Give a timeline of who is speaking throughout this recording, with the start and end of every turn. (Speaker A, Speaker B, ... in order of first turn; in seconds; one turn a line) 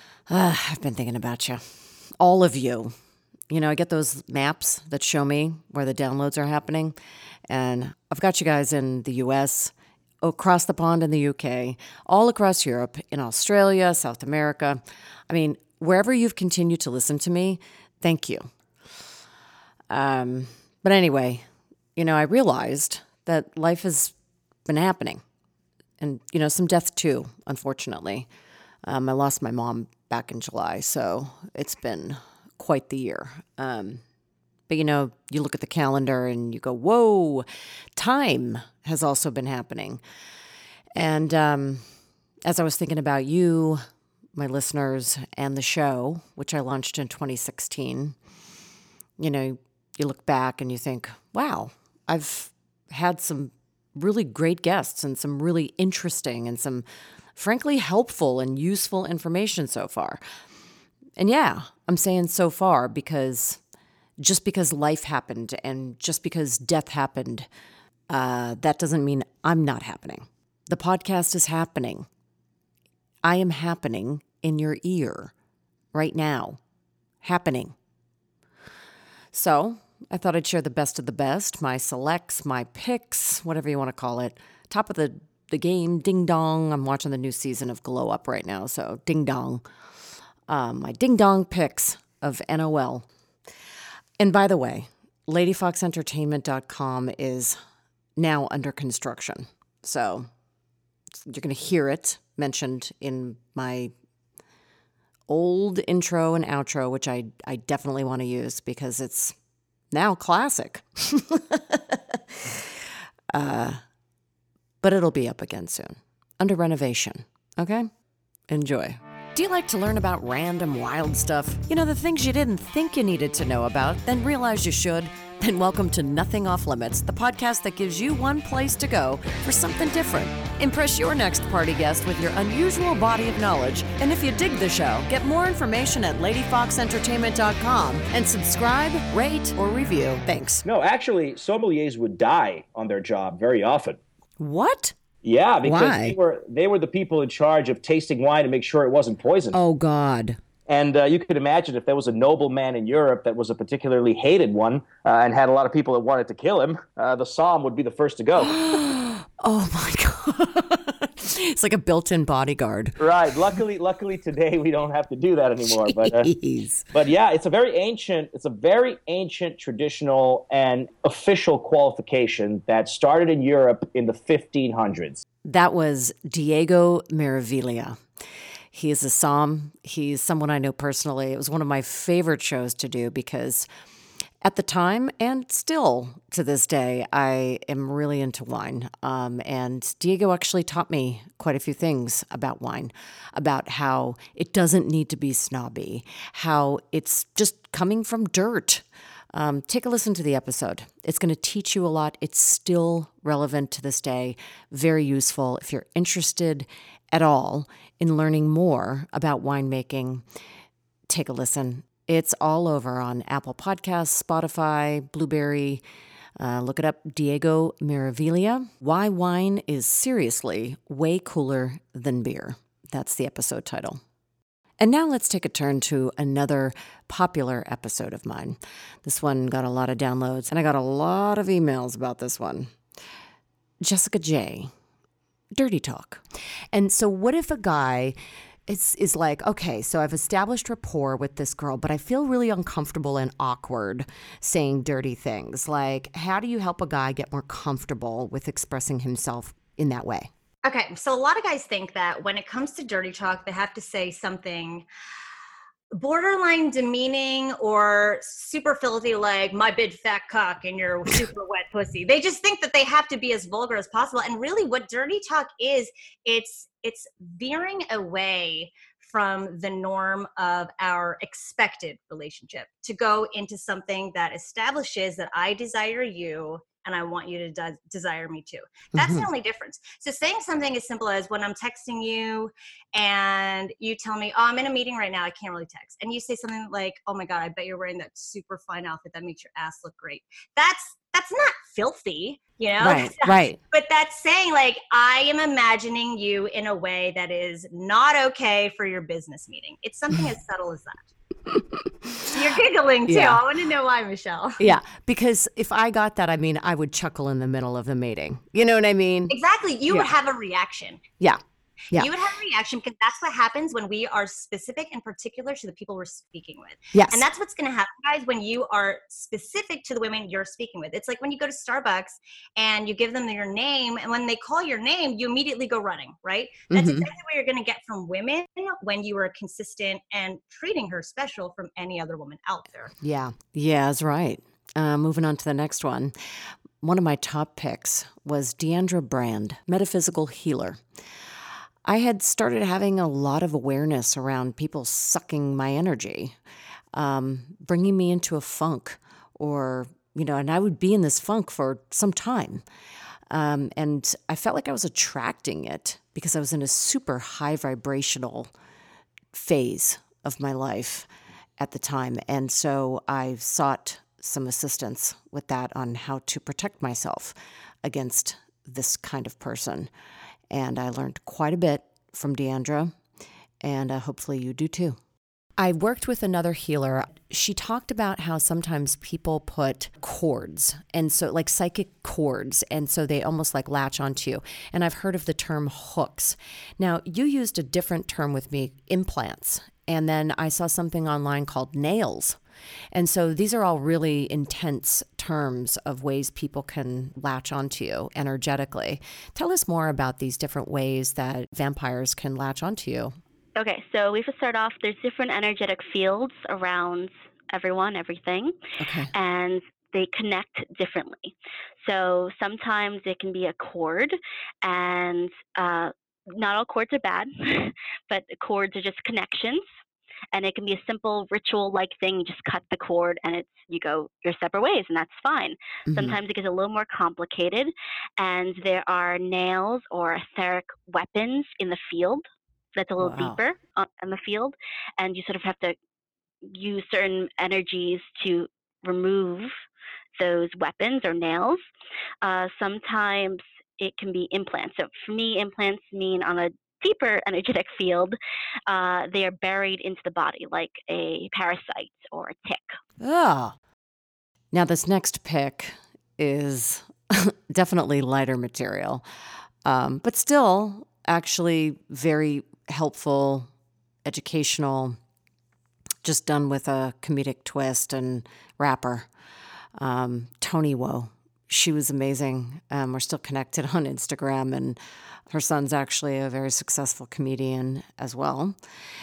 Speaker A: 0.3-2.9
Speaker A: 3.5-7.0
Speaker A: 7.5-9.7
Speaker A: 10.2-18.5
Speaker A: 19.9-21.4
Speaker A: 21.9-24.1
Speaker A: 24.7-25.2
Speaker A: 26.0-28.3
Speaker A: 28.8-34.0
Speaker A: 34.7-40.0
Speaker A: 41.0-41.8
Speaker A: 42.5-43.8
Speaker A: 44.3-48.1
Speaker A: 49.2-60.2
Speaker A: 61.2-63.6
Speaker A: 64.2-67.5
Speaker A: 68.1-72.1
Speaker A: 73.2-75.3
Speaker A: 75.9-76.6
Speaker A: 77.2-77.7
Speaker A: 79.3-89.6
Speaker A: 90.5-93.1
Speaker A: 94.2-97.6
Speaker A: 98.2-100.3
Speaker A: 101.2-103.9
Speaker A: 105.3-109.3
Speaker A: 109.9-112.2
Speaker A: 113.3-113.8
Speaker A: 114.8-117.9
Speaker A: 118.5-140.6
Speaker B: 140.6-143.9
Speaker A: 144.4-144.9
Speaker B: 145.2-149.6
Speaker A: 145.6-146.2
Speaker A: 149.5-150.4
Speaker B: 150.7-158.4
Speaker A: 158.4-163.0
Speaker B: 163.0-166.2
Speaker A: 165.7-166.8
Speaker B: 166.9-175.2
Speaker A: 175.4-178.0
Speaker A: 178.7-183.7
Speaker A: 184.4-210.2
Speaker A: 211.1-215.8
Speaker A: 216.4-224.0
Speaker A: 224.8-232.7
Speaker A: 233.8-234.7
Speaker A: 235.5-238.2
Speaker A: 238.7-250.3
Speaker C: 250.6-254.8
Speaker C: 255.9-301.1
Speaker A: 279.0-279.2
Speaker A: 292.8-293.6
Speaker A: 301.5-302.2
Speaker C: 302.3-304.7
Speaker A: 303.1-303.4
Speaker A: 304.6-309.3
Speaker C: 309.3-311.0
Speaker C: 311.9-332.9
Speaker A: 316.9-317.2
Speaker A: 326.7-327.1
Speaker A: 333.0-336.1
Speaker A: 336.8-340.8
Speaker A: 341.9-346.4
Speaker A: 346.9-352.6
Speaker A: 353.3-358.5
Speaker A: 359.3-361.1
Speaker A: 361.6-369.9
Speaker A: 370.5-372.9
Speaker A: 373.6-375.0
Speaker A: 375.6-392.4
Speaker A: 392.9-403.1
Speaker D: 403.6-408.6
Speaker A: 408.8-409.1
Speaker D: 409.1-419.6
Speaker D: 420.3-435.8
Speaker A: 425.9-426.2
Speaker A: 433.0-433.4
Speaker D: 436.4-439.5
Speaker D: 440.2-441.6
Speaker D: 442.2-452.8
Speaker A: 453.0-453.6
Speaker A: 454.5-459.0
Speaker A: 459.6-463.5
Speaker A: 464.1-465.0
Speaker A: 466.0-469.1
Speaker A: 469.8-474.8
Speaker A: 475.3-478.6